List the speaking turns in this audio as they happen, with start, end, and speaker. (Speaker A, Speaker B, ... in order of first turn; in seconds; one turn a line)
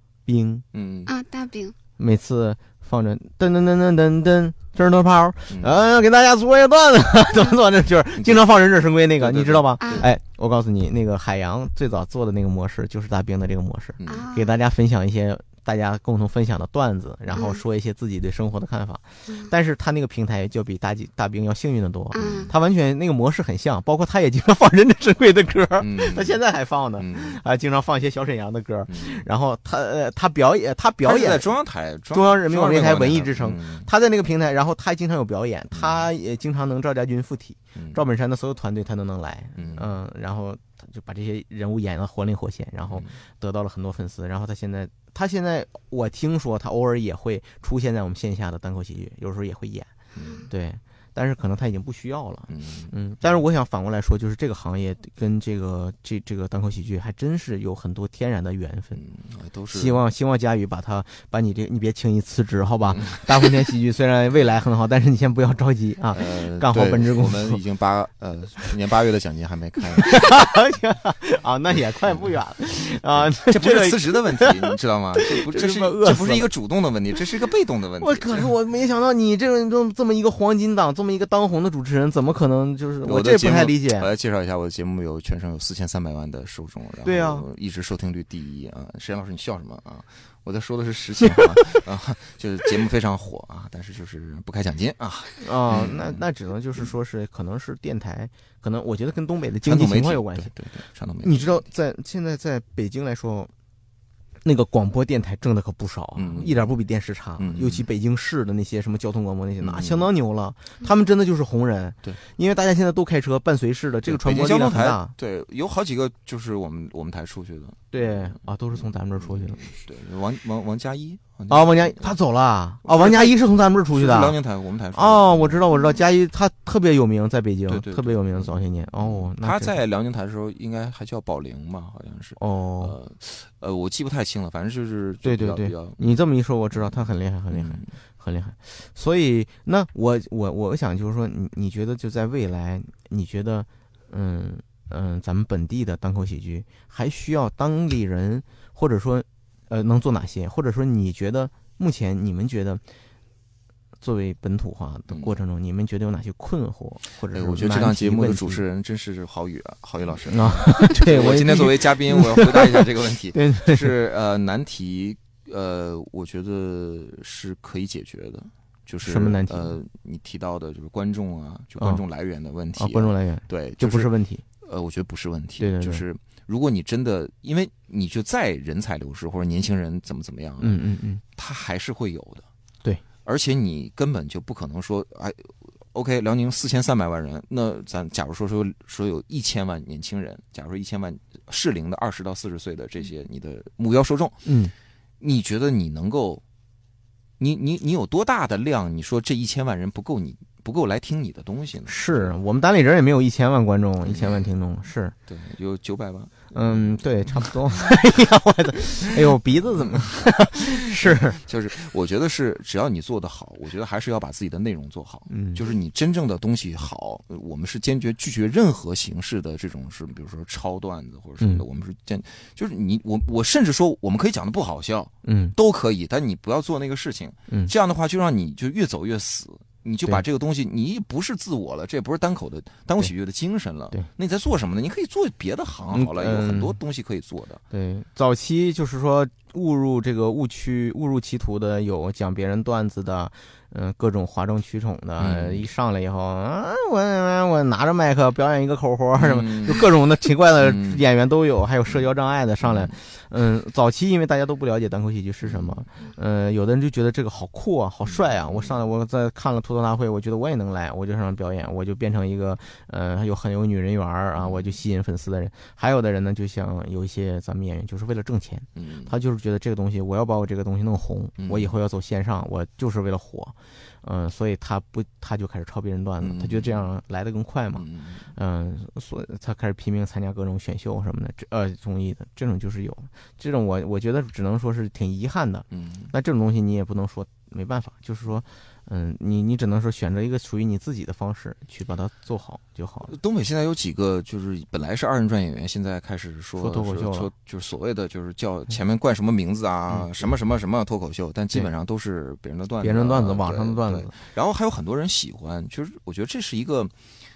Speaker A: 0.3-0.7
Speaker B: 0.7-1.1
Speaker C: 1.1-1.7
Speaker A: 2.0-31.5
Speaker B: 9.2-10.1
Speaker B: 14.0-14.3
Speaker C: 14.1-14.6
Speaker C: 17.3-17.6
Speaker C: 22.1-22.5
Speaker B: 22.1-22.5
Speaker B: 25.8-26.4
Speaker B: 27.0-27.4
Speaker B: 28.9-29.2
Speaker B: 31.0-33.9
Speaker A: 32.1-49.9
Speaker B: 35.7-36.0
Speaker B: 39.6-39.8
Speaker B: 50.1-50.5
Speaker C: 50.2-50.5
Speaker A: 50.5-59.0
Speaker B: 52.5-52.9
Speaker B: 58.9-60.0
Speaker A: 59.7-67.6
Speaker B: 62.9-63.2
Speaker B: 66.1-70.2
Speaker A: 70.0-76.5
Speaker B: 73.1-78.5
Speaker A: 78.0-84.1
Speaker B: 83.0-96.2
Speaker A: 87.0-87.5
Speaker A: 95.4-100.5
Speaker B: 99.6-101.6
Speaker A: 101.2-103.5
Speaker A: 104.4-115.1
Speaker B: 106.2-106.7
Speaker B: 107.4-107.8
Speaker B: 109.6-110.1
Speaker B: 114.1-122.2
Speaker A: 117.9-119.7
Speaker A: 121.5-124.4
Speaker B: 122.8-123.3
Speaker B: 123.9-125.7
Speaker A: 125.0-129.8
Speaker B: 127.7-136.0
Speaker A: 132.4-133.0
Speaker A: 135.2-152.8
Speaker B: 137.5-137.9
Speaker A: 154.0-158.6
Speaker B: 155.1-155.3
Speaker B: 157.3-174.1
Speaker A: 160.3-164.0
Speaker A: 169.1-169.7
Speaker A: 172.8-174.4
Speaker B: 174.6-180.8
Speaker A: 175.6-176.1
Speaker A: 180.6-181.2
Speaker B: 181.4-182.4
Speaker B: 183.2-194.4
Speaker A: 194.4-194.7
Speaker B: 195.2-196.4
Speaker B: 197.4-202.3
Speaker A: 201.9-205.2
Speaker B: 204.1-204.5
Speaker B: 205.3-207.9
Speaker A: 206.5-211.4
Speaker B: 209.8-210.1
Speaker B: 211.0-237.6
Speaker A: 215.3-215.6
Speaker A: 225.2-225.6
Speaker A: 227.5-227.7
Speaker A: 235.9-236.8
Speaker A: 237.7-277.8
Speaker B: 245.2-245.6
Speaker B: 249.2-249.8
Speaker B: 250.6-251.0
Speaker B: 252.6-252.9
Speaker B: 255.4-255.9
Speaker B: 258.1-258.7
Speaker B: 264.4-264.8
Speaker B: 268.8-269.1
Speaker B: 271.4-271.7
Speaker B: 276.2-276.8
Speaker B: 277.7-278.3
Speaker A: 278.4-293.1
Speaker B: 285.7-286.1
Speaker B: 293.1-306.9
Speaker A: 296.6-297.3
Speaker A: 302.8-304.1